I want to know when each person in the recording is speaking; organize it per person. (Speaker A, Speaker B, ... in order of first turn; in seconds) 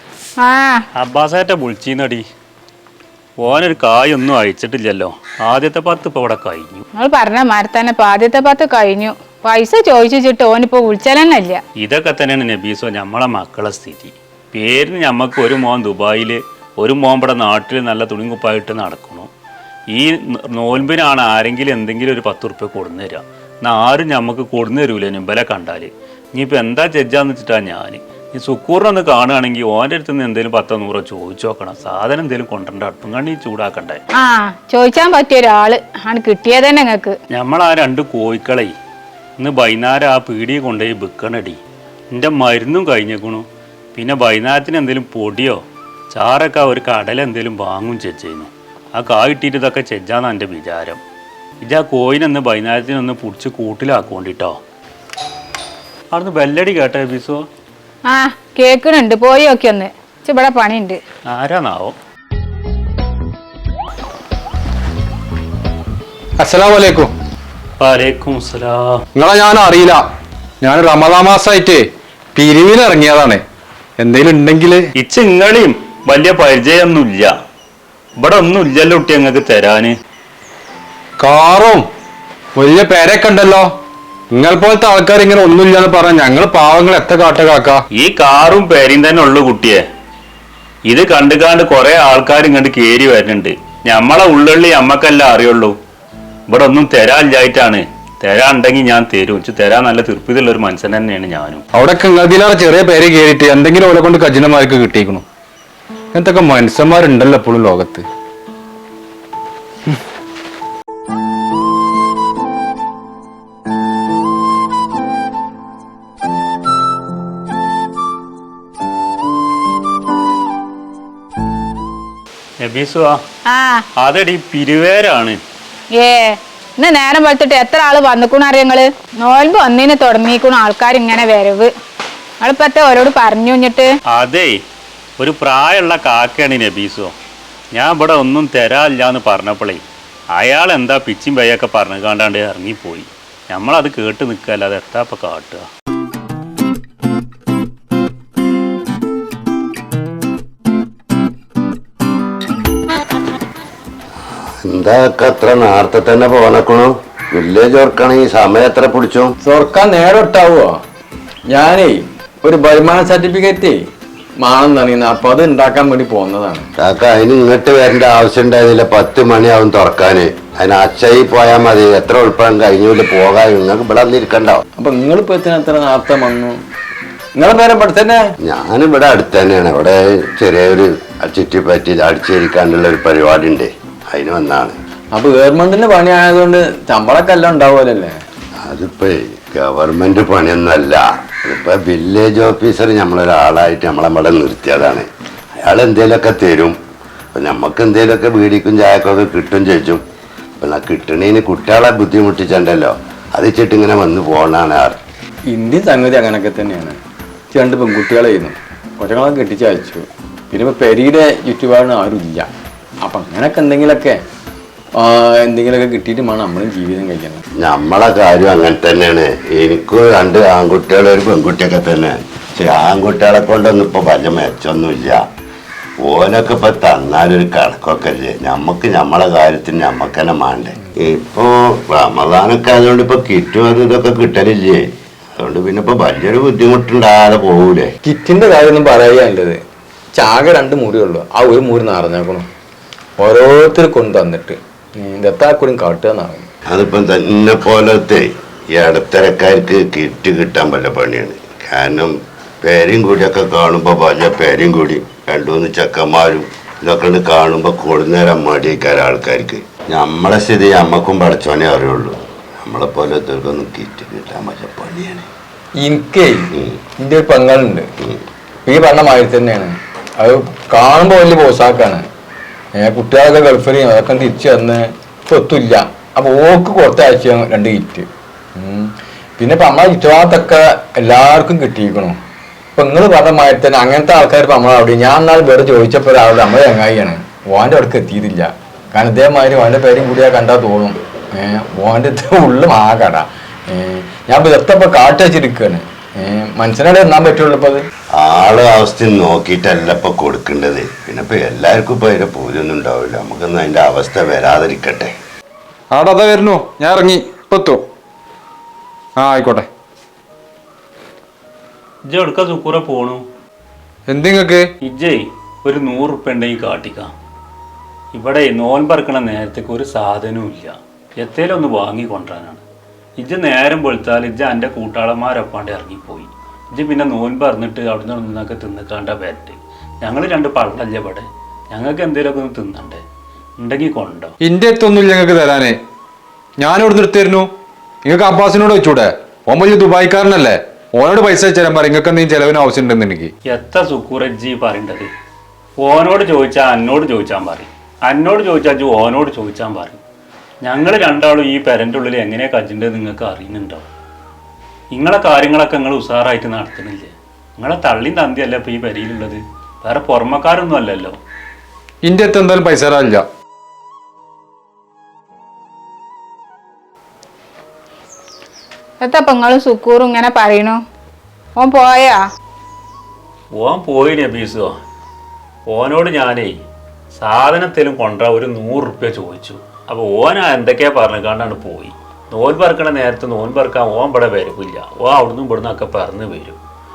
Speaker A: 0.4-0.8, 7.0-11.6, 34.1-37.1, 58.1-61.0, 123.5-123.8, 125.9-131.7, 132.4-133.9, 369.0-370.8, 371.6-372.2
Speaker B: 1.0-2.2, 3.4-6.9, 11.8-19.3, 19.9-34.0, 37.3-38.7, 39.4-41.6, 42.1-45.6, 46.1-51.0, 51.6-54.6, 56.1-57.4, 61.3-62.0, 67.8-69.0, 75.0-77.3, 78.2-80.0, 88.0-89.8, 90.9-95.8, 96.5-101.6, 122.6-123.2, 124.0-125.4, 134.1-134.6, 135.2-137.1, 137.8-139.8, 140.3-145.7, 312.1-313.2, 314.9-317.1, 318.1-322.6, 323.2-333.0, 333.6-334.3, 343.5-345.1, 345.8-350.0, 350.6-353.9, 354.9-361.2, 373.6-374.7, 375.7-376.6, 377.2-386.6
Speaker C: 66.4-67.1, 69.2-70.1, 70.6-73.4, 74.0-74.8, 81.2-81.9, 82.6-83.7, 84.3-87.8, 101.8-105.2, 106.1-108.1, 305.9-307.8, 309.2-309.7, 314.1-314.7, 334.4-335.8, 336.6-337.5, 338.1-343.3, 362.0-363.2
Speaker D: 154.7-159.3, 166.8-174.6, 178.4-184.8, 188.7-195.1, 195.6-196.8, 197.3-200.0, 200.6-205.0, 217.6-225.2, 226.0-237.9, 246.7-265.3, 298.2-305.1
Speaker E: 159.4-160.8, 161.5-163.8, 164.4-166.7, 174.8-176.6, 177.4-178.2, 185.1-188.2, 205.5-207.0, 207.5-212.5, 213.0-214.2, 215.0-217.4, 238.1-239.6, 240.2-242.5, 243.2-246.5, 265.8-267.9, 268.7-272.0, 272.8-278.1, 278.6-282.2, 282.8-297.8